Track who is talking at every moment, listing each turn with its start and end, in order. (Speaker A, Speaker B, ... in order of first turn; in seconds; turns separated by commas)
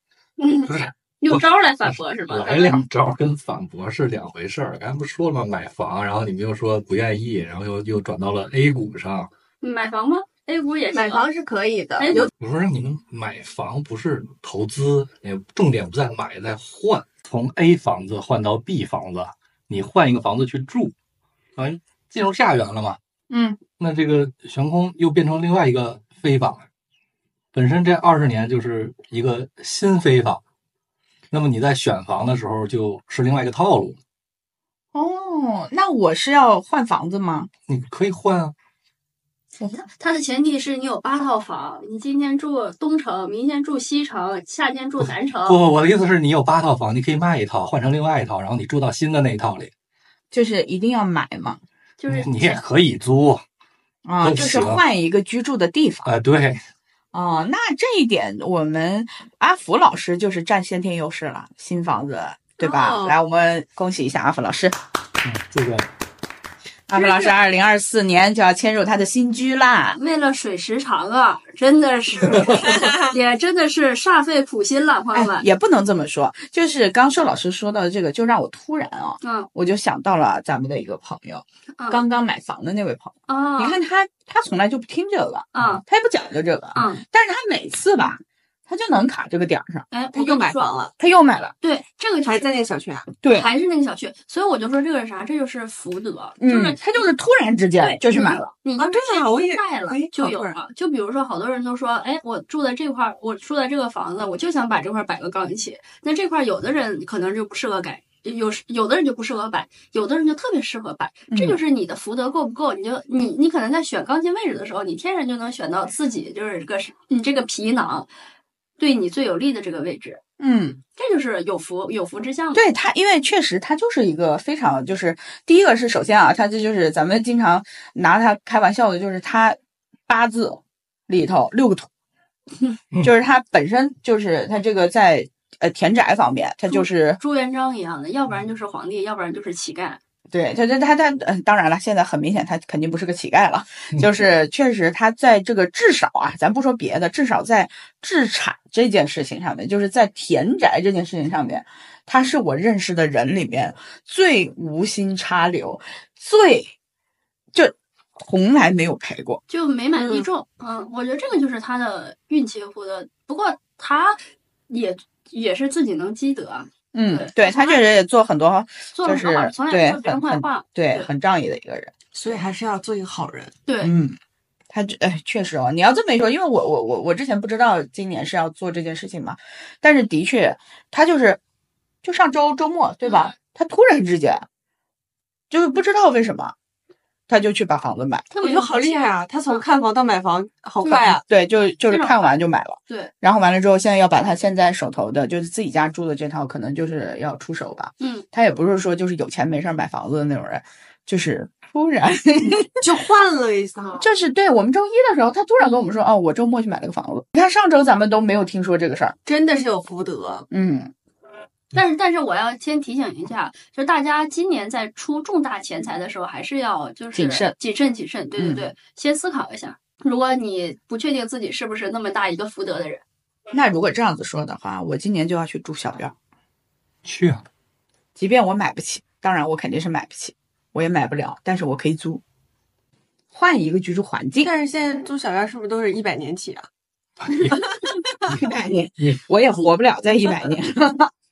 Speaker A: 0.4-2.8, Speaker B: 0.7-9.3, Speaker A: 9.6-11.2, Speaker C: 10.9-12.3, Speaker A: 12.0-12.3, Speaker B: 12.4-20.9, Speaker B: 21.6-23.0, Speaker D: 23.3-23.6, Speaker B: 23.8-26.7, Speaker B: 27.5-30.4, Speaker B: 31.3-34.0, Speaker D: 34.9-37.5, Speaker B: 37.7-38.5, Speaker A: 39.7-45.6, Speaker B: 45.5-49.7, Speaker D: 50.3-51.6, Speaker A: 52.0-52.6, Speaker B: 52.1-53.4, Speaker D: 54.0-56.1, Speaker B: 54.2-54.8, Speaker B: 56.0-56.6, Speaker D: 57.1-64.8, Speaker C: 62.6-63.1, Speaker B: 65.2-65.9, Speaker D: 66.9-70.0, Speaker C: 67.0-67.2, Speaker A: 70.0-75.5, Speaker C: 72.7-73.2, Speaker D: 75.1-89.9, Speaker A: 79.2-79.5, Speaker A: 81.8-82.0, Speaker A: 83.3-83.8, Speaker A: 85.5-85.8, Speaker A: 86.8-87.0, Speaker A: 89.9-90.8, Speaker C: 90.1-90.9, Speaker D: 91.0-91.5, Speaker A: 91.6-92.5, Speaker C: 92.2-93.1, Speaker D: 93.2-93.5, Speaker A: 93.3-96.8, Speaker D: 96.4-98.5, Speaker A: 97.8-118.1, Speaker C: 98.8-100.6, Speaker D: 111.3-111.6, Speaker A: 118.8-120.2, Speaker D: 120.4-120.8, Speaker A: 121.0-122.7, Speaker D: 122.5-129.6, Speaker D: 130.1-131.9, Speaker D: 133.0-137.2, Speaker A: 136.7-140.0, Speaker D: 140.3-156.7, Speaker D: 157.5-159.4, Speaker A: 159.5-167.8, Speaker C: 159.9-160.3, Speaker D: 166.9-171.9, Speaker A: 168.9-171.1, Speaker C: 172.2-173.6, Speaker A: 173.7-173.9, Speaker D: 173.8-174.2, Speaker D: 174.7-181.4, Speaker D: 182.0-184.5, Speaker D: 185.5-186.6, Speaker D: 187.3-188.3, Speaker A: 188.3-188.9, Speaker C: 188.4-191.2, Speaker D: 190.8-202.9, Speaker A: 191.9-192.3, Speaker A: 198.0-198.2, Speaker C: 202.8-204.1, Speaker D: 204.0-209.2, Speaker C: 209.3-210.5, Speaker D: 210.5-210.9, Speaker A: 211.7-223.0, Speaker D: 217.1-217.5, Speaker D: 218.4-218.7, Speaker D: 223.5-226.2, Speaker B: 227.1-227.4, Speaker D: 228.2-232.2, Speaker D: 233.3-234.5, Speaker C: 234.4-236.7, Speaker B: 237.3-237.6, Speaker D: 238.3-241.1